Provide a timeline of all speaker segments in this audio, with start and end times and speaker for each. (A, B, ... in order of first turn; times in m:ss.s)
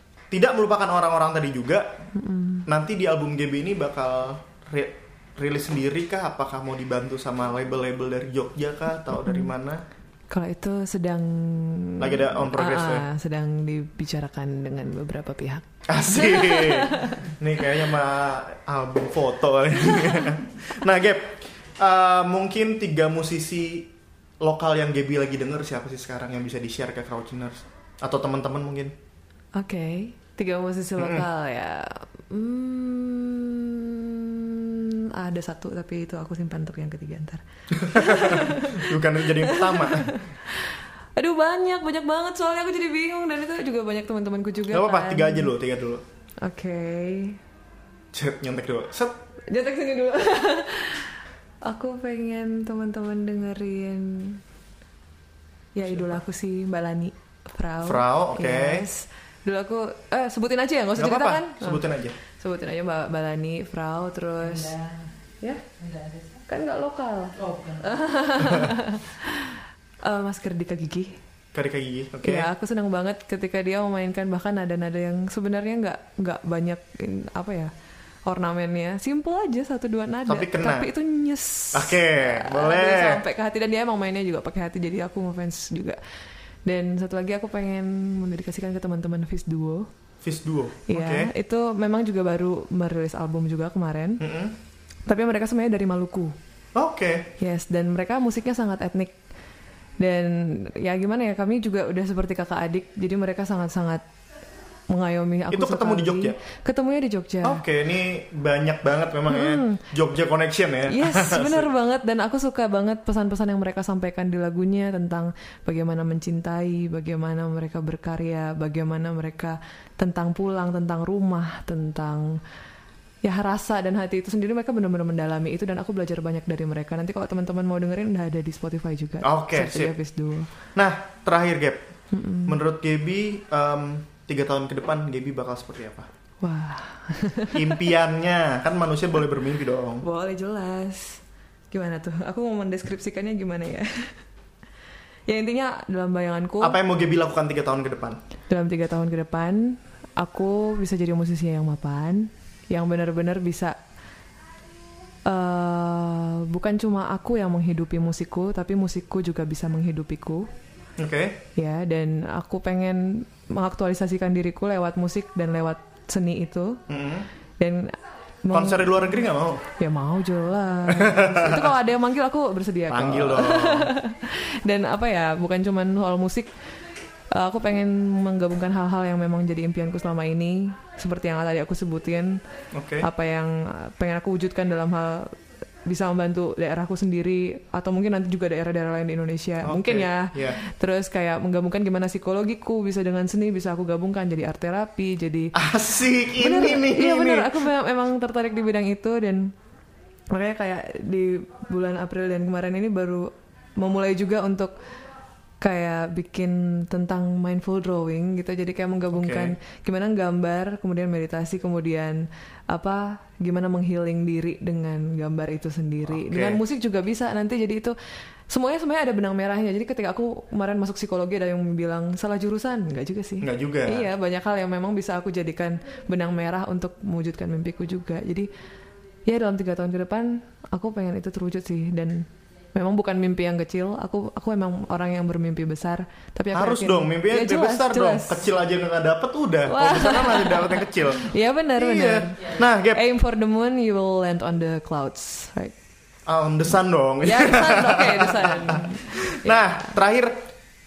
0:00.3-0:01.9 A
0:02.1-0:02.6 B
0:02.6-0:09.8 A
0:09.2-0:09.5 B
0:10.3-0:17.3 B
0:12.0-0:13.0 A
0:15.9-0:23.9 A
0:24.4-0:28.9 A
0:29.6-0:45.5 B
0:31.0-0:31.2 A
0:37.8-0:40.1 A
0:44.7-0:46.0 A
0:46.4-0:47.4 B
0:48.1-0:49.2 A
0:49.5-0:51.1 B
0:51.6-0:54.4 B
0:55.7-1:04.7 B
0:57.8-0:58.8 A
1:01.0-1:02.2 A
1:04.4-1:05.1 C
1:05.8-1:06.4 C
1:06.5-1:11.2 B
1:07.4-1:07.9 C
1:11.5-1:12.5 A
1:12.2-1:17.7 B
1:18.2-1:26.0 B
1:20.3-1:20.9 A
1:21.7-1:23.2 A
1:26.6-1:29.9 B
1:30.2-1:31.3 A
1:30.9-1:34.2 B
1:34.2-1:34.5 A
1:35.1-1:36.3 B
1:36.7-1:37.3 A
1:37.4-1:39.2 B
1:40.0-1:44.0 B
1:44.9-1:47.6 B
1:45.5-1:46.4 A
1:47.4-1:51.7 A
1:49.3-1:49.8 B
1:50.9-2:02.4 B
2:03.2-2:10.5 B
2:09.2-2:09.9 A
2:10.7-2:11.8 A
2:12.1-2:12.6 B
2:12.5-2:16.1 A
2:16.4-2:17.9 B
2:17.5-2:20.0 A
2:20.0-2:24.2 B
2:25.3-2:26.8 B
2:26.6-2:28.2 A
2:28.5-2:33.8 B
2:35.2-2:40.5 B
2:41.0-2:41.4 A
2:41.6-2:46.8 B
2:46.9-2:47.3 A
2:47.6-2:49.2 B
2:48.5-2:49.6 A
2:49.8-2:56.5 B
2:50.9-2:51.7 A
2:52.9-2:53.9 A
2:57.3-3:02.4 B
3:02.7-3:03.1 A
3:03.0-3:05.3 B
3:05.8-3:15.7 B
3:09.6-3:10.6 A
3:15.5-3:17.6 A
3:16.2-3:19.5 B
3:20.3-3:24.7 B
3:25.6-3:37.9 B
3:29.1-3:29.6 A
3:36.1-3:36.6 A
3:38.5-3:48.5 B
3:43.4-3:44.1 A
3:49.2-3:58.4 B
3:56.5-4:03.0 A
3:59.7-4:05.7 B
4:06.3-4:10.4 A
4:07.2-4:09.8 B